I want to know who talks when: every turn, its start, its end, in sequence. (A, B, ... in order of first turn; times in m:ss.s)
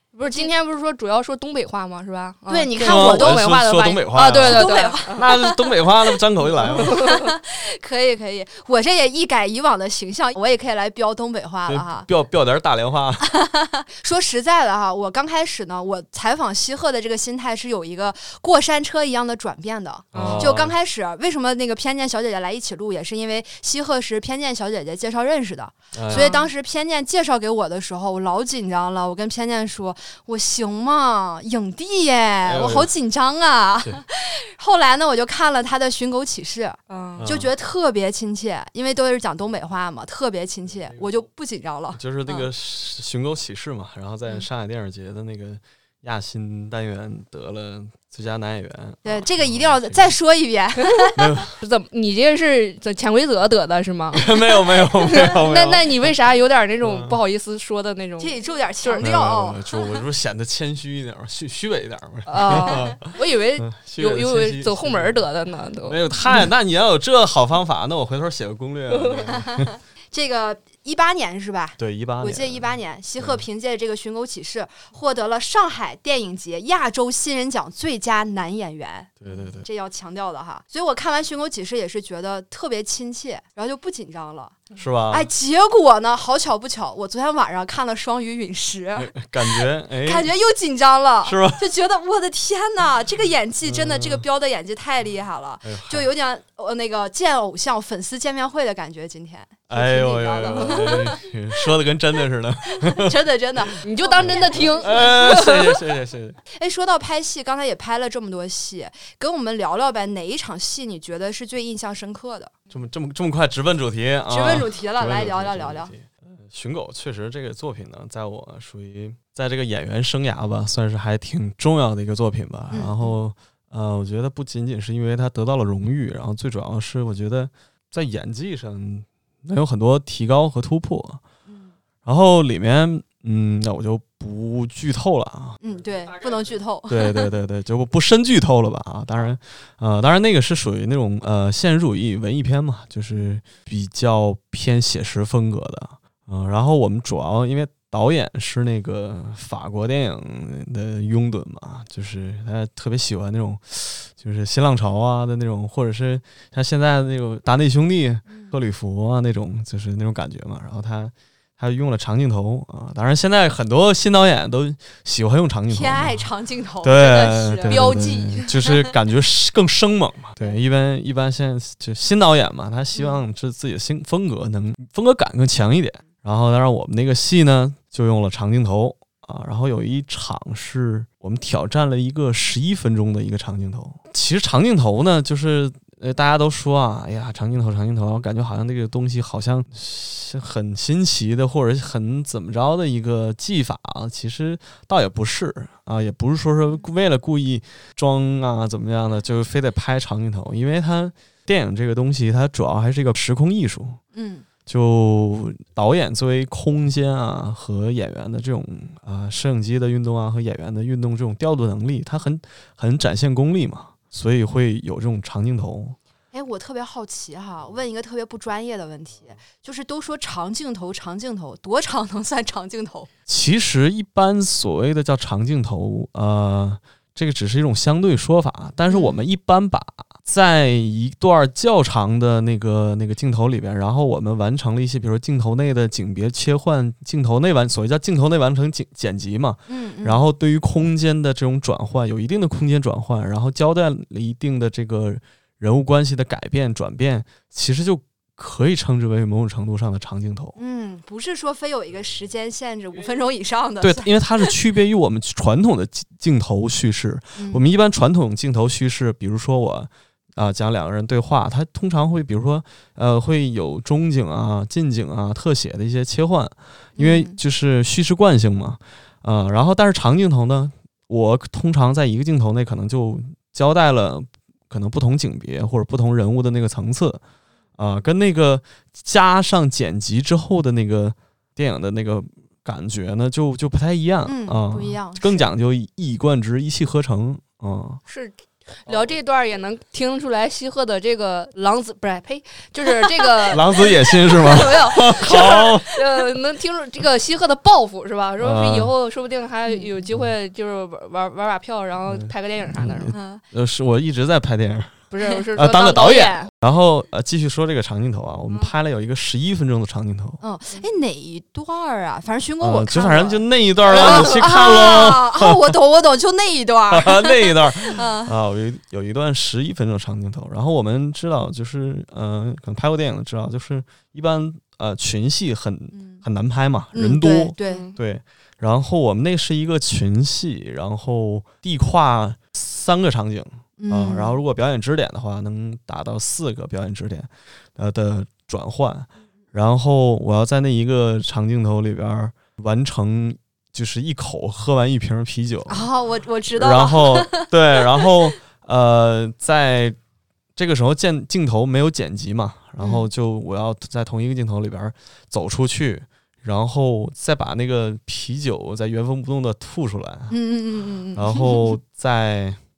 0:00.1-0:05.3 A
0:02.5-0:03.4 B
0:02.8-0:07.1 C
0:04.2-0:05.8 B
0:06.6-0:12.1 B
0:06.7-0:07.3 A
0:11.7-0:13.3 C
0:13.2-0:42.5 B
0:20.1-0:20.5 A
0:20.1-0:20.7 C
0:25.9-0:26.3 C
0:26.1-0:26.5 A
0:32.4-0:32.9 C
0:36.9-0:37.2 A
0:37.2-0:37.5 C
0:42.0-0:50.1 C
0:49.0-0:51.2 B
0:50.8-0:59.1 A
0:51.2-0:51.5 C
0:54.1-0:56.1 C
0:56.8-0:57.2 C
0:58.2-0:59.6 B
0:59.0-1:05.3 C
1:02.3-1:06.0 A
1:05.8-1:09.7 C
1:08.9-1:09.3 A
1:09.5-1:24.6 B
1:11.8-1:13.4 C
1:19.2-1:19.7 C
1:24.8-1:25.3 C
1:25.1-1:41.2 B
1:29.0-1:30.3 C
1:31.2-1:31.6 C
1:33.6-1:34.2 C
1:35.6-1:36.1 C
1:39.7-1:43.2 C
1:40.5-1:41.0 A
1:42.8-1:45.2 B
1:43.8-1:45.8 A
1:44.2-1:46.4 C
1:46.6-1:52.5 B
1:52.7-2:11.2 C
1:54.3-1:55.9 B
2:02.7-2:03.2 B
2:11.5-2:11.7 B
2:12.0-2:15.6 C
2:15.6-2:17.3 B
2:16.9-2:46.3 C
2:38.3-2:38.5 B
2:45.7-2:48.6 B
2:46.8-3:24.0 C
2:47.7-2:48.4 A
2:52.9-2:53.2 B
3:24.1-3:24.4 B
3:24.6-3:36.0 C
3:36.3-3:43.1 B
3:43.3-4:10.5 C
3:48.9-3:49.2 B
3:59.7-4:00.2 B
4:10.6-4:14.5 B
4:13.8-4:37.2 C
4:17.4-4:17.6 B
4:27.0-4:27.4 B
4:37.8-4:48.0 C
4:44.2-4:45.5 B
4:48.1-5:03.1 A
4:53.5-4:56.3 C
4:54.5-4:55.2 B
4:58.4-4:58.9 C
4:59.7-4:59.9 B
5:02.0-5:10.4 C
5:03.1-5:03.4 B
5:05.1-5:06.5 A
5:10.4-5:18.3 B
5:12.6-5:15.7 C
5:14.0-5:14.3 A
5:16.9-5:45.9 C
5:25.9-5:26.2 B
5:26.9-5:27.9 B
5:27.6-5:28.0 A
5:33.8-5:34.4 B
5:45.7-5:48.1 B
5:46.5-5:50.0 C
5:50.6-6:00.4 C
5:52.8-5:53.1 B
6:00.3-6:01.7 B
6:01.1-6:02.6 C